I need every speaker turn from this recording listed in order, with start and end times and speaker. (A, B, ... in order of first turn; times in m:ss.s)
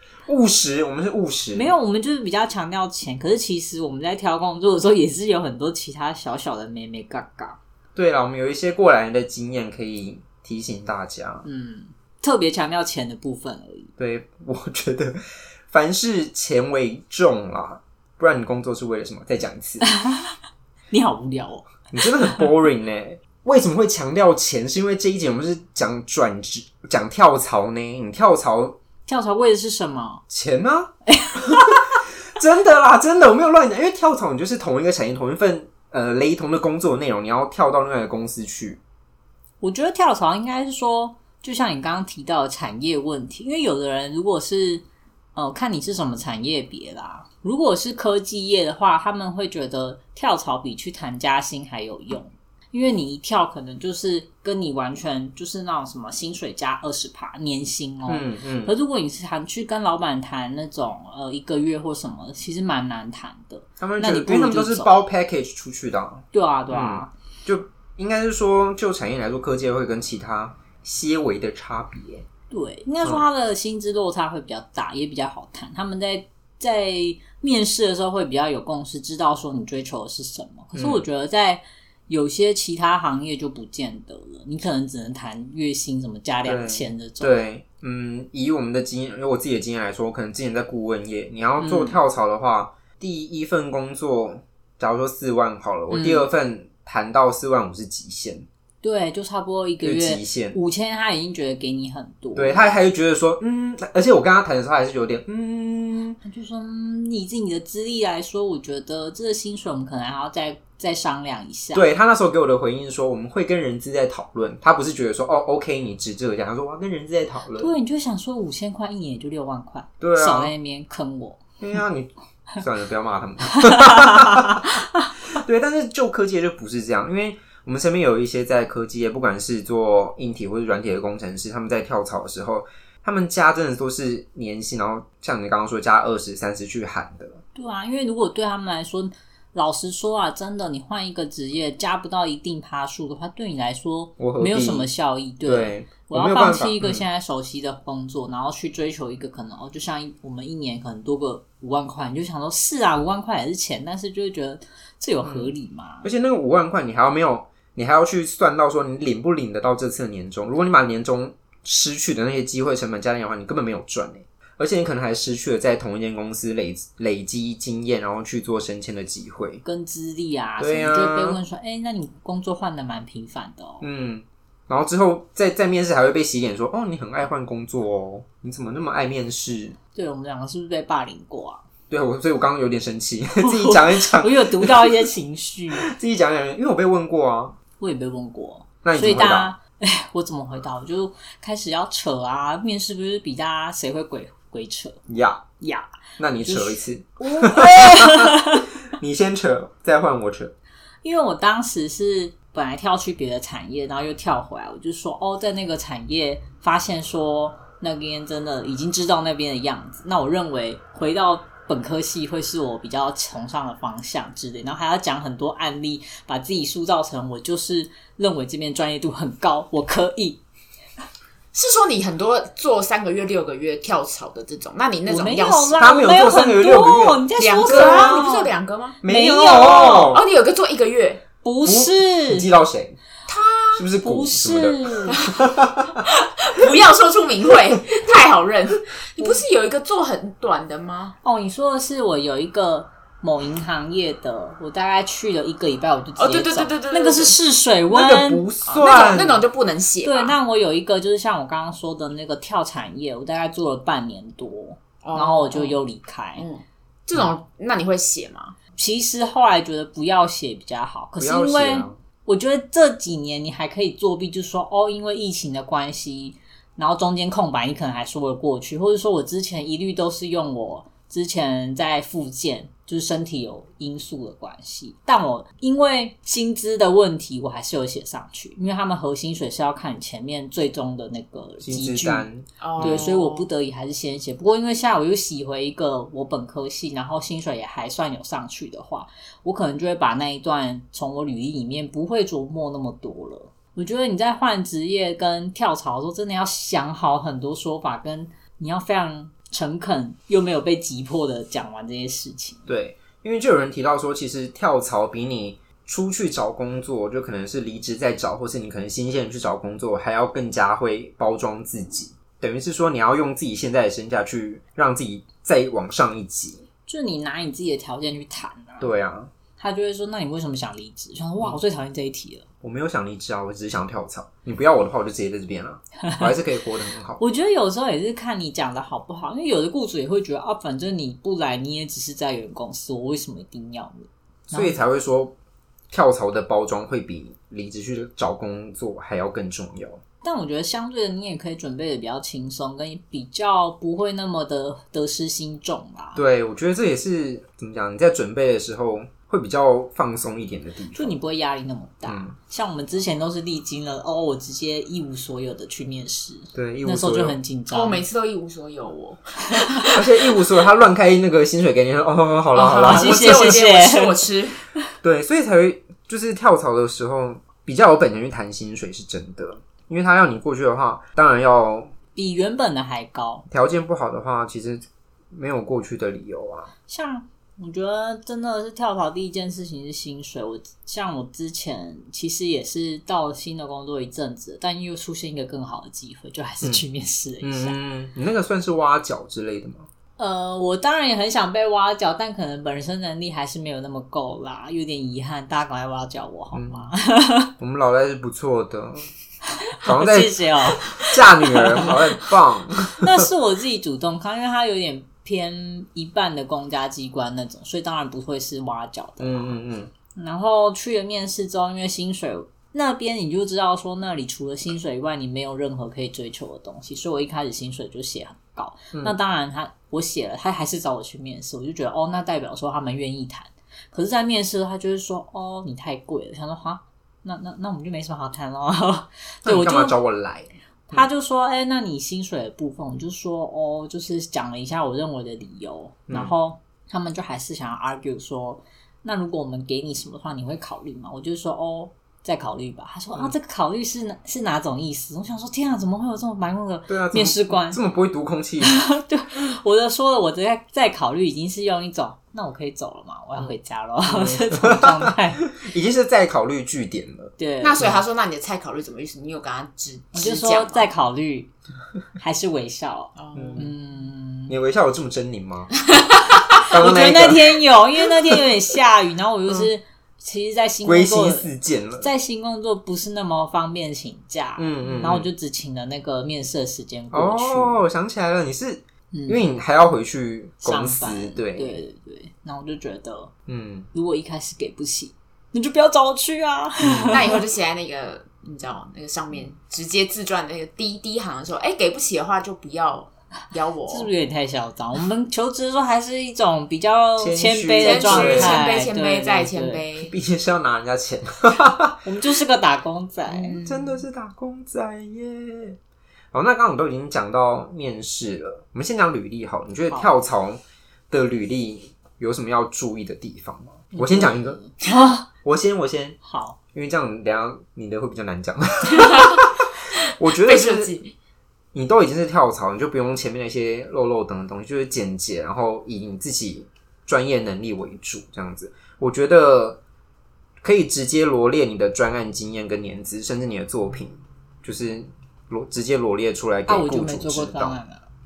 0:00.3-0:01.7 A
0:01.5-0:07.6 B
0:08.0-0:11.5 A
0:11.4-0:13.9 B
0:14.0-0:19.8 A
0:19.8-0:20.4 B
0:20.9-0:22.4 B
0:21.9-0:28.8 A
0:29.1-0:30.2 B
0:30.3-0:31.8 A
0:31.1-0:31.9 B
0:32.4-0:38.8 A
0:39.6-0:44.8 B
0:45.4-1:04.9 B
0:58.1-0:58.7 A
1:03.8-1:12.3 A
1:06.3-1:07.1 B
1:12.5-1:27.4 B
1:20.8-1:21.0 A
1:26.4-1:38.5 A
1:31.6-1:32.0 B
1:35.9-1:36.3 B
1:38.8-1:42.8 B
1:39.8-1:40.6 A
1:42.4-1:46.2 A
1:46.2-1:51.9 B
1:51.7-1:57.7 A
1:57.6-2:01.4 B
2:00.0-2:00.5 A
2:01.6-2:04.7 A
2:03.6-2:05.1 B
2:05.3-2:17.4 A
2:17.6-2:36.1 B
2:24.2-2:24.9 A
2:25.4-2:27.0 A
2:35.2-2:35.5 A
2:36.0-2:49.6 A
2:49.6-2:53.8 B
2:50.6-2:51.4 A
2:53.8-2:59.8 A
3:00.0-3:01.6 B
3:01.9-3:05.1 A
3:03.4-3:05.9 B
3:05.7-3:07.6 A
3:07.8-3:15.0 B
3:08.8-3:09.5 A
3:15.1-3:15.4 A
3:15.6-3:15.9 B
3:16.2-3:20.5 A
3:16.4-3:18.7 B
3:21.0-3:40.4 B
3:41.5-3:45.8 C
3:45.1-3:48.5 B
3:45.8-3:48.3 A
3:47.4-3:49.0 C
3:49.0-3:50.2 A
3:49.0-3:50.1 B
3:49.6-3:51.2 C
3:51.4-3:52.5 B
3:51.6-3:53.0 A
3:53.3-3:53.9 C
3:53.7-3:56.0 A
3:54.0-3:55.2 B
3:55.1-3:55.5 C
3:56.0-4:01.2 C
4:01.2-4:08.4 B
4:06.2-4:07.4 C
4:07.9-4:09.4 A
4:08.6-4:10.4 C
4:10.0-4:16.4 B
4:15.0-4:15.8 C
4:16.4-4:18.6 C
4:18.8-4:42.3 B
4:21.2-4:22.0 A
4:41.6-4:43.1 A
4:42.6-4:43.5 C
4:42.8-5:02.7 B
5:02.7-5:16.6 A
5:16.9-5:18.9 B
5:18.8-5:19.3 A
5:19.6-5:22.4 B
5:22.6-5:27.2 A
5:27.2-5:34.8 B
5:34.5-5:35.4 A
5:35.9-5:40.0 A
5:40.2-5:46.2 B
5:46.2-5:51.2 A
5:50.9-5:58.0 B
5:52.1-5:52.4 A
5:56.6-5:57.4 A
5:57.7-6:00.0 C
5:59.5-5:59.9 B
6:00.0-6:03.6 A
6:02.5-6:04.6 C
6:02.8-6:04.2 B
6:05.0-6:11.9 A
6:12.2-6:13.4 B
6:13.5-6:16.7 A
6:16.9-6:27.8 B
6:27.4-6:29.9 A
6:30.2-6:37.5 B
6:36.5-6:36.9 A
6:37.6-6:39.1 A
6:39.7-6:42.2 B
6:39.8-6:43.2 A
6:43.0-6:49.6 B
6:49.2-6:49.9 A
6:50.2-7:10.0 B
7:09.4-7:11.1 A
7:10.9-7:27.8 B
7:26.9-7:28.8 A
7:28.6-7:35.4 B
7:34.1-7:38.0 A
7:37.4-7:37.9 B
7:37.6-7:40.9 C
7:40.1-7:41.5 B
7:42.2-7:44.6 B
7:43.2-7:43.7 C
7:43.4-7:43.7 A
7:44.5-7:45.8 A
7:46.7-7:48.5 A
7:46.7-7:57.8 B
7:50.8-7:52.1 A
7:54.6-7:55.3 A
7:57.1-8:01.8 A
7:59.1-7:59.4 B
8:00.6-8:03.3 B
8:03.5-8:03.9 A
8:03.9-8:07.4 B
8:06.8-8:07.2 A
8:07.1-8:14.1 C
8:13.9-8:19.8 B
8:17.2-8:18.6 A
8:17.8-8:20.1 C
8:20.0-8:22.0 A
8:22.0-8:23.6 B
8:23.3-8:24.0 C
8:23.6-8:25.8 A
8:26.3-8:34.6 A
8:33.9-8:35.2 B
8:35.4-8:36.2 A
8:36.2-8:36.6 B
8:36.7-8:40.9 A
8:39.0-8:39.4 C
8:40.4-8:41.1 C
8:41.7-8:49.8 A
8:50.6-8:57.8 A
8:56.7-8:58.0 B